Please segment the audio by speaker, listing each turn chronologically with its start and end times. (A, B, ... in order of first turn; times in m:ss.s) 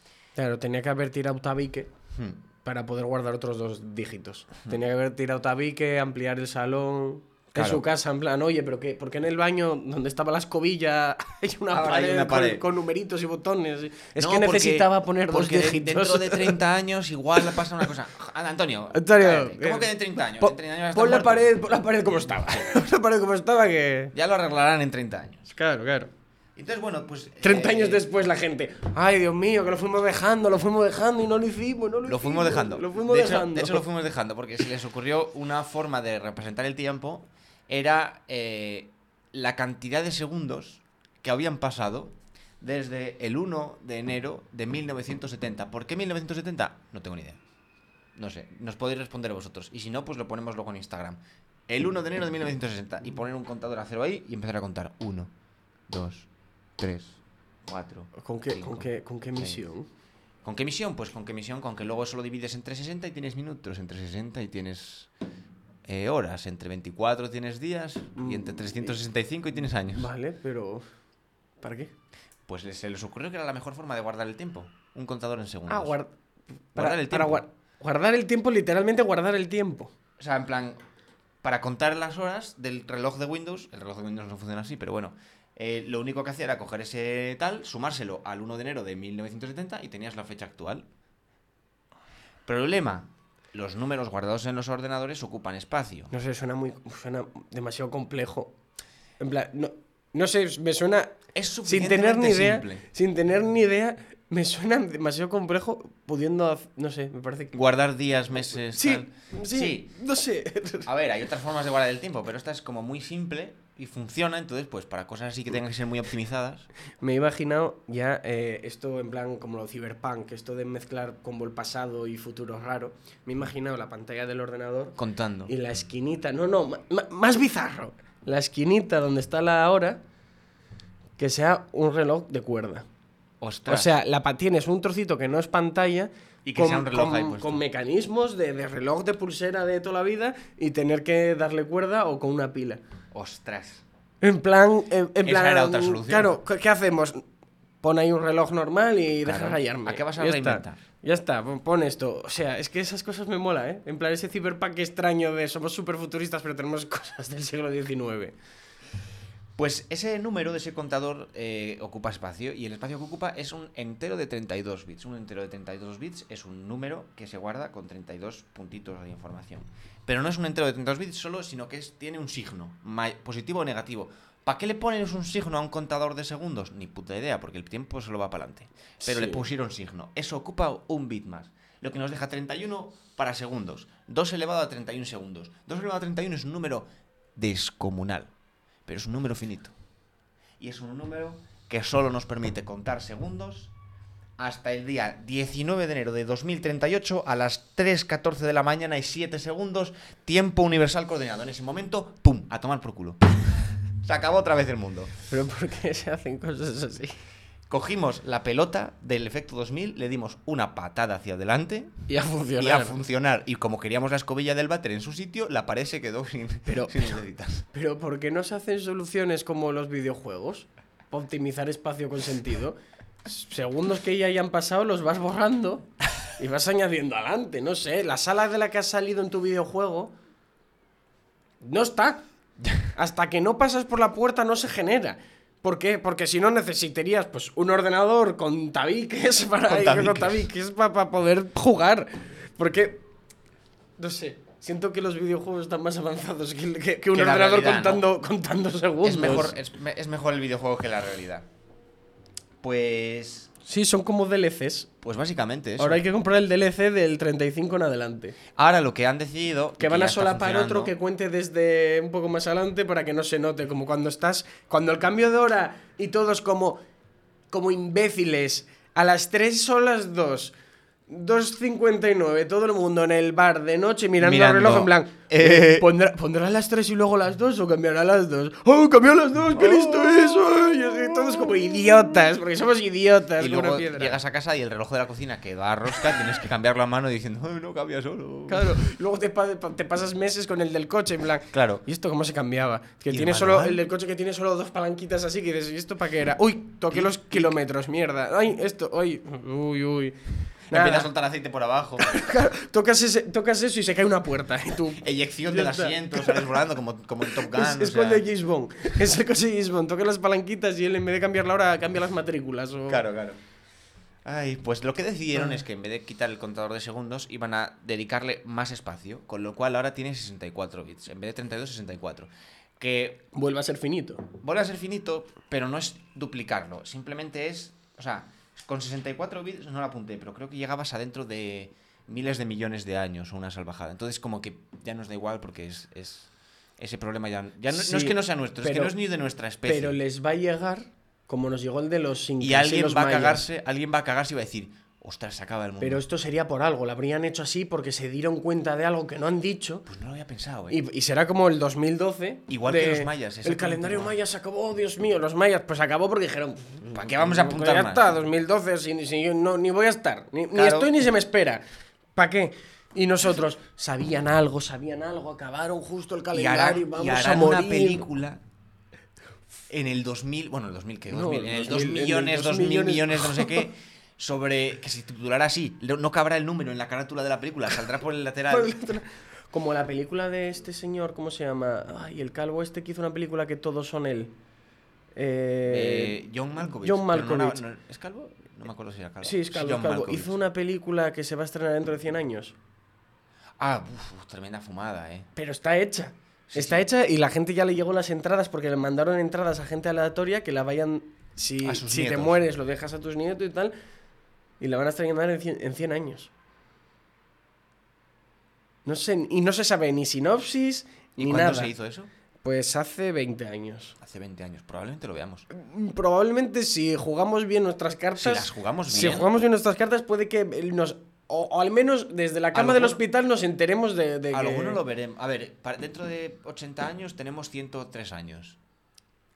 0:00.4-0:01.9 A
0:02.1-0:02.4 B
0:02.6-0:16.6 A
0:07.6-0:07.8 B
0:11.7-0:12.6 B
0:14.2-0:21.4 B
0:18.9-0:24.1 A
0:24.1-0:25.5 B
0:25.5-0:26.1 A
0:26.6-0:28.0 B
0:27.4-0:33.8 A
0:32.0-0:47.4 B
0:48.2-0:55.3 B
0:55.9-0:59.6 B
0:58.2-0:59.9 A
1:00.4-1:05.1 B
1:05.8-1:10.1 B
1:08.2-1:09.0 A
1:09.8-1:10.8 A
1:11.6-1:11.9 A
1:12.5-1:15.9 B
1:15.7-1:16.1 A
1:16.7-1:19.9 A
1:16.8-1:17.4 B
1:20.2-1:20.8 B
1:21.4-1:30.9 B
1:32.5-1:36.1 B
1:36.1-1:38.5 A
1:39.2-1:47.6 A
1:41.3-1:42.8 B
1:47.5-1:49.9 B
1:48.7-1:50.9 A
1:50.8-1:56.7 B
1:57.0-2:10.0 A
2:05.0-2:05.5 B
2:11.2-2:12.9 A
2:13.4-2:13.9 B
2:13.7-2:22.8 A
2:16.4-2:17.6 B
2:23.1-2:23.8 B
2:24.2-2:27.2 A
2:25.2-2:26.4 B
2:27.8-2:38.3 A
2:29.2-2:30.8 B
2:39.6-3:08.3 B
2:59.0-2:59.5 A
3:08.9-3:09.8 B
3:10.6-3:13.7 B
3:14.4-3:25.1 B
3:25.3-3:27.2 A
3:27.7-3:32.0 B
3:32.1-3:33.0 A
3:32.6-3:37.7 B
3:36.7-3:37.1 A
3:37.7-3:50.1 A
3:51.6-3:52.2 A
3:52.9-4:03.0 A
3:59.7-4:00.5 B
4:04.0-4:09.6 A
4:07.1-4:08.0 B
4:09.0-4:11.5 B
4:12.6-4:13.5 B
4:13.6-4:14.9 A
4:15.0-4:16.0 B
4:15.8-4:18.4 A
4:18.6-4:20.9 B
4:19.8-4:26.8 A
4:27.5-4:30.6 A
4:31.1-4:44.2 A
4:34.2-4:35.9 B
4:39.6-4:39.9 B
4:43.4-4:48.8 B
4:48.5-5:01.1 A
4:51.5-4:51.8 B
4:53.1-4:53.8 B
4:56.9-4:57.6 B
5:00.7-5:02.1 B
5:02.0-5:06.5 A
5:05.0-5:08.2 B
5:07.3-5:13.0 A
5:12.9-5:13.4 B
5:14.2-5:23.3 B
5:23.3-5:24.3 A
5:24.4-5:40.0 B
5:37.7-5:38.9 A
5:39.6-5:43.5 A
5:42.4-5:46.0 B
5:45.8-5:49.9 A
5:49.9-5:50.8 B
5:50.7-6:01.6 A
5:52.5-5:54.2 B
5:56.9-5:58.2 B
6:00.5-6:00.9 B
6:02.2-6:08.1 A
6:06.3-6:08.4 B
6:09.7-6:18.7 B
6:11.1-6:13.7 A
6:18.5-6:24.3 A
6:25.2-6:27.6 A
6:25.7-6:30.4 B
6:29.2-6:32.6 A
6:33.6-6:35.3 B
6:35.4-6:43.7 A
6:36.5-6:36.9 B
6:41.6-6:42.4 B
6:44.6-6:46.3 A
6:48.8-6:51.7 A
6:51.2-6:52.1 B
6:52.4-6:54.0 A
6:54.0-6:55.5 B
6:55.5-7:04.8 A
6:58.2-6:59.3 B
7:02.5-7:03.0 B
7:04.3-7:08.6 B